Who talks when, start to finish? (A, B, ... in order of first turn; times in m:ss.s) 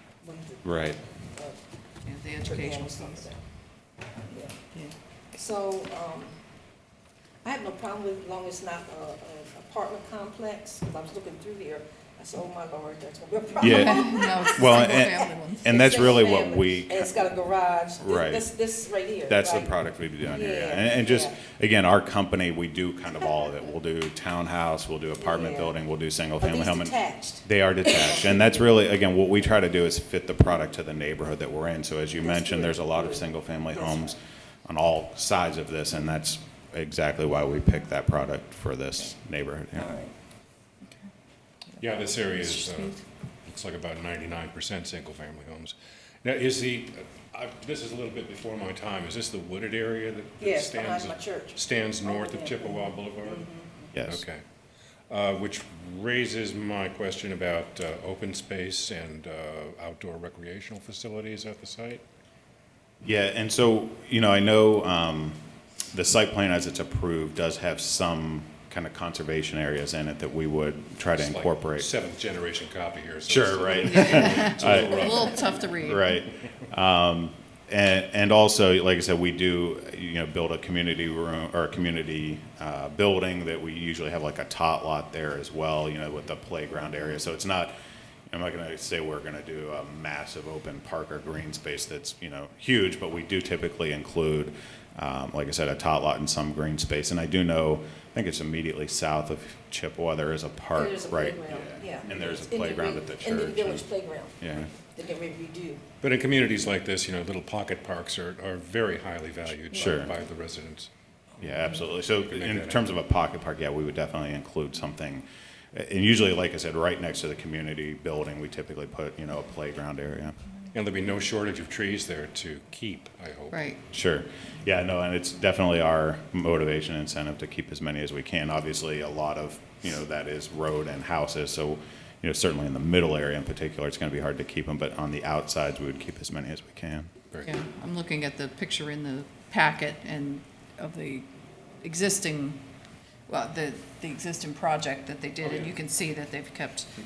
0:00.2-0:01.6 A
0:00.6-0:01.0 B
0:02.0-0:03.3 C
0:02.4-0:03.4 A
0:04.3-0:04.6 A
0:05.3-0:06.4 A
0:07.4-0:19.7 A
0:13.6-0:15.7 C
0:13.6-0:17.3 B
0:18.0-0:18.6 B
0:19.3-0:40.0 B
0:20.3-0:21.4 A
0:25.2-0:25.7 A
0:26.4-0:28.5 A
0:32.2-0:34.1 A
0:39.8-0:40.1 A
0:41.8-0:54.4 D
0:42.4-0:43.0 C
0:50.4-0:53.9 A
0:53.9-0:54.2 B
0:55.1-1:02.0 D
1:03.0-1:11.9 B
1:11.2-1:15.7 D
1:13.3-1:27.7 B
1:13.9-1:16.2 C
1:28.3-1:43.9 B
1:40.7-1:45.8 A
1:44.4-1:44.7 B
1:46.0-1:50.9 D
1:49.7-1:50.1 B
1:51.4-2:00.4 B
1:51.6-1:53.0 D
2:00.7-2:03.6 D
2:03.5-2:03.8 C
2:03.9-2:17.1 B
2:17.4-2:21.3 C
2:21.8-2:22.6 C
2:23.3-2:26.9 C
2:25.4-2:25.8 D